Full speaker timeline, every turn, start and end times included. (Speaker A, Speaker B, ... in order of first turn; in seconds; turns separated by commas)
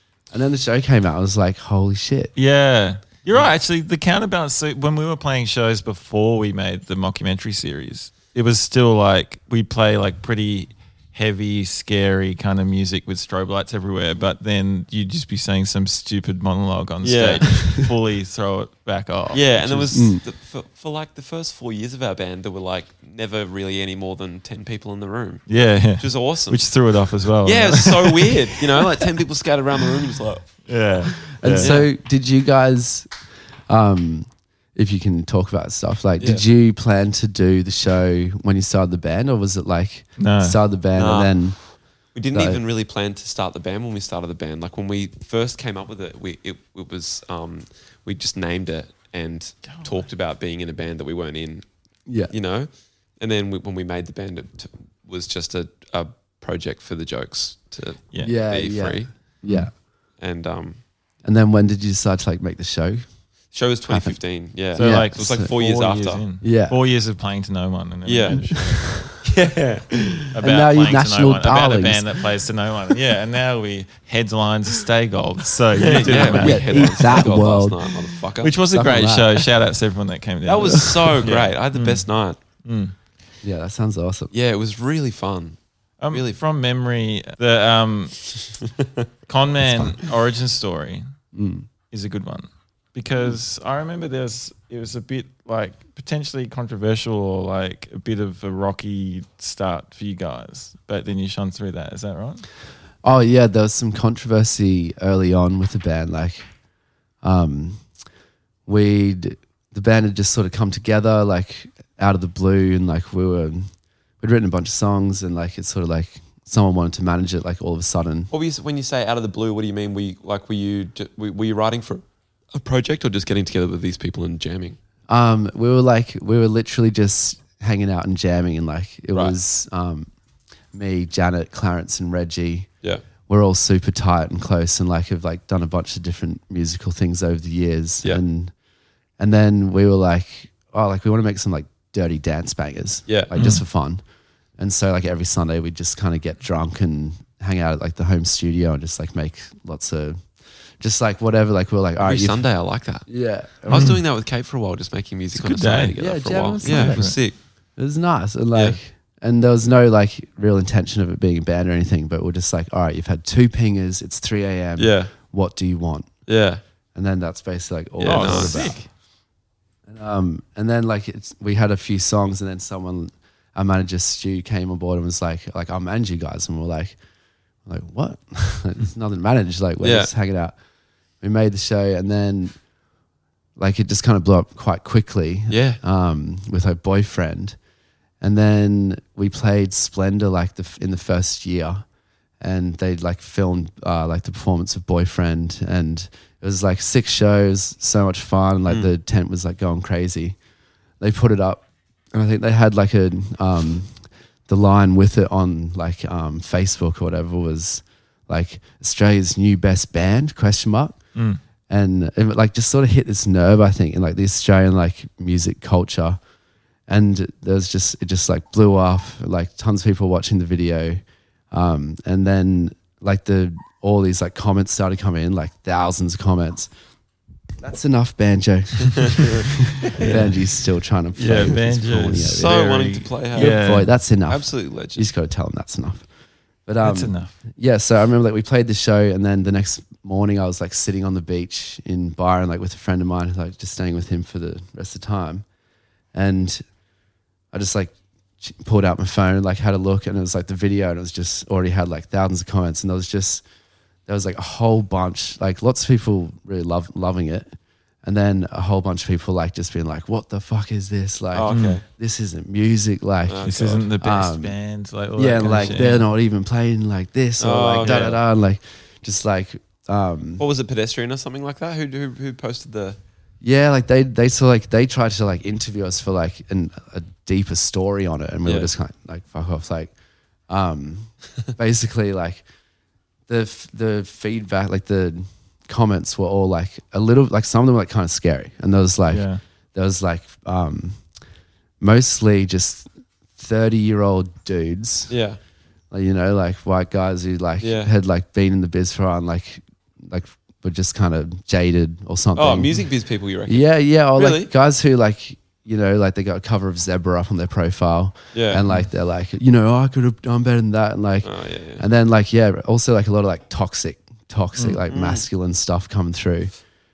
Speaker A: 0.3-2.3, Speaker B: 2.4-19.9, Speaker C: 17.0-17.5, Speaker C: 19.3-26.7, Speaker A: 19.9-20.2, Speaker B: 25.5-28.4, Speaker C: 27.4-30.6, Speaker B: 30.7-31.8, Speaker A: 31.4-33.1, Speaker C: 31.5-31.9, Speaker A: 33.7-41.6, Speaker C: 36.2-36.5, Speaker B: 40.2-40.6, Speaker C: 40.9-41.5, Speaker C: 42.1-51.7, Speaker A: 42.3-42.6, Speaker A: 52.1-52.3, Speaker C: 52.3-59.1, Speaker A: 58.2-59.7, Speaker C: 60.2-60.8, Speaker A: 61.2-63.0, Speaker C: 63.5-66.2, Speaker A: 63.9-65.5, Speaker B: 64.7-69.1, Speaker A: 66.4-66.8, Speaker C: 68.0-68.6, Speaker A: 68.4-69.0, Speaker C: 69.2-70.3, Speaker B: 70.3-77.3, Speaker A: 70.4-72.2, Speaker C: 75.7-78.5, Speaker A: 75.8-77.9, Speaker B: 78.4-82.0, Speaker A: 78.7-79.5, Speaker C: 80.4-82.4, Speaker A: 80.6-81.3, Speaker B: 82.6-82.9, Speaker A: 83.4-84.3, Speaker C: 84.3-85.6, Speaker B: 86.0-88.3, Speaker C: 86.1-86.4, Speaker B: 89.3-91.0, Speaker A: 91.3-91.7, Speaker B: 91.9-102.4, Speaker A: 103.0-106.5, Speaker A: 107.2-107.8, Speaker A: 108.7-113.7, Speaker A: 114.2-118.3, Speaker C: 118.3-124.8, Speaker A: 125.1-130.1, Speaker A: 130.7-132.7, Speaker A: 133.3-138.5, Speaker A: 139.2-144.0, Speaker B: 143.3-143.6, Speaker A: 144.6-150.2, Speaker A: 150.8-152.4, Speaker C: 152.0-153.1, Speaker A: 153.1-154.0, Speaker C: 153.7-157.3, Speaker B: 153.7-154.0, Speaker B: 155.3-155.9, Speaker A: 156.0-157.1, Speaker B: 156.6-157.2, Speaker A: 157.8-166.1, Speaker C: 158.5-158.8, Speaker C: 164.8-165.1, Speaker C: 166.3-166.6, Speaker A: 166.9-168.8, Speaker C: 168.0-168.7, Speaker B: 168.0-168.8, Speaker A: 169.8-177.0, Speaker A: 177.6-180.6, Speaker C: 179.8-180.1, Speaker A: 181.2-182.5, Speaker A: 183.6-187.6, Speaker C: 185.5-185.8, Speaker A: 188.2-191.8, Speaker A: 192.4-200.3, Speaker A: 201.0-211.0, Speaker A: 211.7-216.2, Speaker A: 216.9-226.7, Speaker A: 227.6-232.7, Speaker C: 228.8-229.4, Speaker B: 229.9-230.4, Speaker B: 231.2-233.9, Speaker C: 232.3-233.6, Speaker A: 233.3-236.1, Speaker C: 234.3-235.1, Speaker A: 236.7-245.4, Speaker B: 236.8-237.3, Speaker A: 246.1-246.6, Speaker A: 247.5-253.4, Speaker A: 254.1-264.5, Speaker C: 261.3-261.8, Speaker B: 261.5-261.8, Speaker C: 263.2-263.9, Speaker B: 263.4-266.1, Speaker A: 265.1-270.4, Speaker C: 267.4-268.2, Speaker B: 267.8-268.2, Speaker C: 270.4-273.0, Speaker A: 273.4-279.9, Speaker C: 278.4-278.7, Speaker A: 280.5-282.4, Speaker A: 283.3-291.0, Speaker B: 289.1-289.4, Speaker A: 291.8-295.1, Speaker C: 295.1-295.4, Speaker A: 295.9-302.7, Speaker C: 297.6-297.9, Speaker C: 302.3-304.5, Speaker A: 303.5-316.5, Speaker C: 308.3-308.6, Speaker C: 311.2-311.8, Speaker C: 314.9-315.2